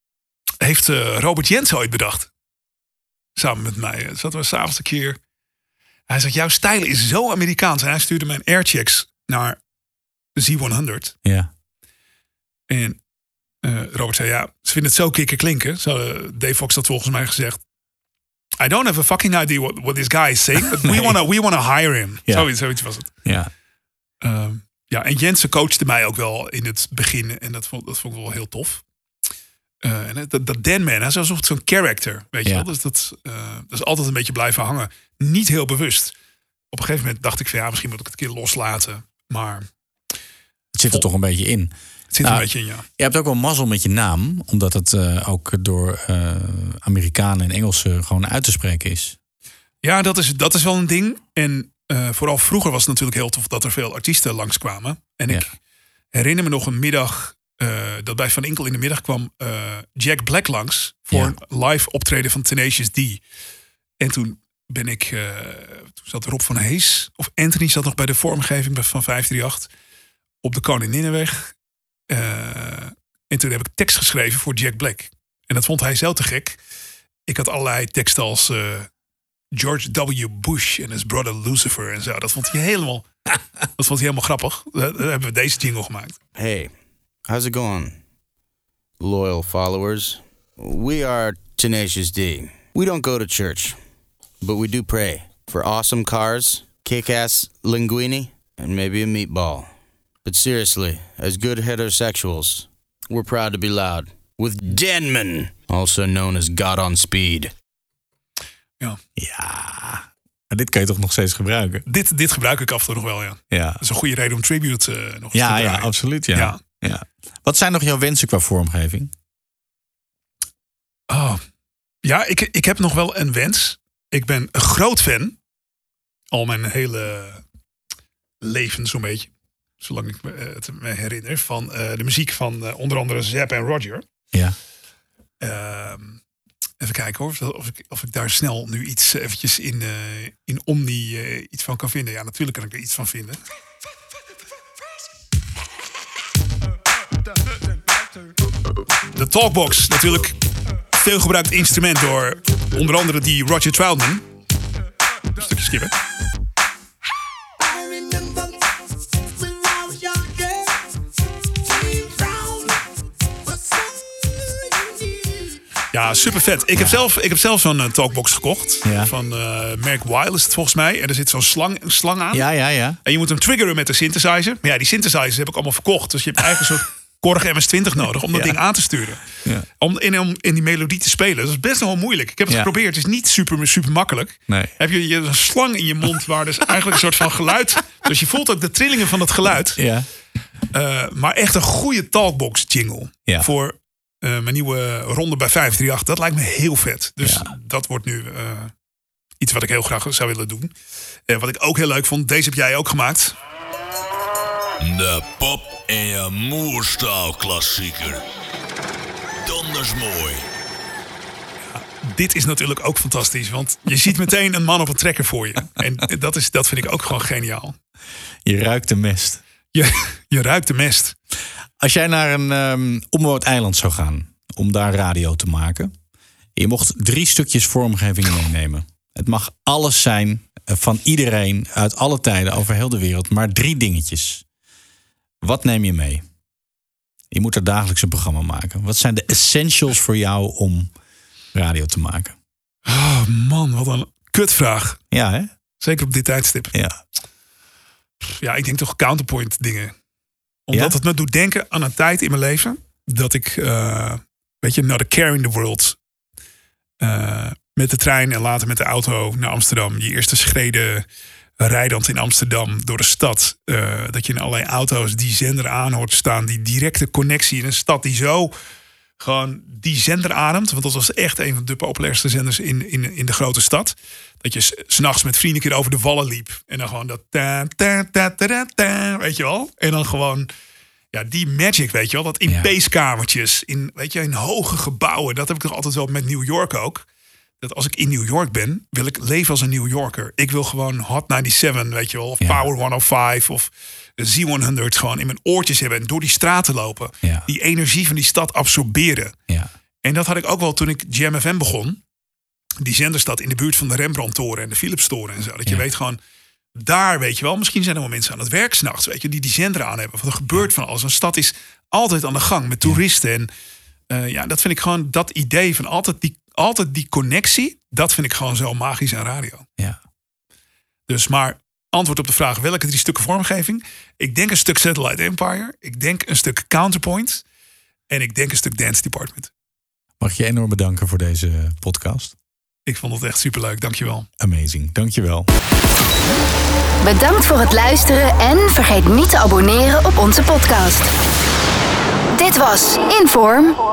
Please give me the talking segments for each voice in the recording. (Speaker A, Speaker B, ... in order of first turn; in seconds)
Speaker A: 0.6-2.3, 3.4-5.2, 6.1-9.6, 10.3-11.2, 12.7-13.0, 13.6-17.6, 18.6-23.1, 24.2-28.8, 29.8-36.1, 36.7-39.7, 42.1-42.8, 49.8-55.5, 56.1-63.2, 64.0-69.7, 70.4-71.5, 72.1-76.6, 77.3-78.9, 79.5-83.0, 83.8-86.2, 111.9-116.6, 121.1-121.4, 122.0-125.4, 126.3-127.4, 128.4-129.3, 129.8-134.0, 135.4-136.2, 136.8-143.4, 149.1-150.3, 150.9-154.2, 155.4-155.9, 165.9-172.5, 173.0-179.2, 179.8-189.8, 190.7-198.7, 199.4-200.7, 201.3-203.3, 211.6-217.8, 219.7-221.2, 242.8-245.0, 245.8-246.7, 248.2-249.9, 250.7-256.0, 257.0-261.0, 261.6-268.5, 269.2-280.5, 281.1-287.1, 287.6-299.3, 300.0-302.0, 302.8-306.2, 306.7-313.5, 314.1-319.6, 321.1-327.4, 328.1-329.5, 332.9-334.3
Speaker B: 11.2-11.5, 20.8-21.1, 23.2-23.5, 40.7-42.5, 43.0-49.1, 109.2-111.8, 113.5-113.8, 115.3-119.1, 166.8-167.0, 168.8-169.1, 172.3-173.0, 178.3-178.6, 189.8-190.1, 197.2-197.5, 218.4-219.4, 221.8-225.9, 226.6-234.4, 235.4-236.2, 237.3-240.9, 241.5-242.3, 245.1-245.5, 246.7-247.0, 330.2-332.3, 334.4-335.5
Speaker C: 86.3-86.7, 87.2-88.0, 89.0-93.8, 94.4-99.7, 100.2-107.5
Speaker D: 204.8-208.2, 209.4-210.4
Speaker E: 337.0-341.1, 342.4-343.8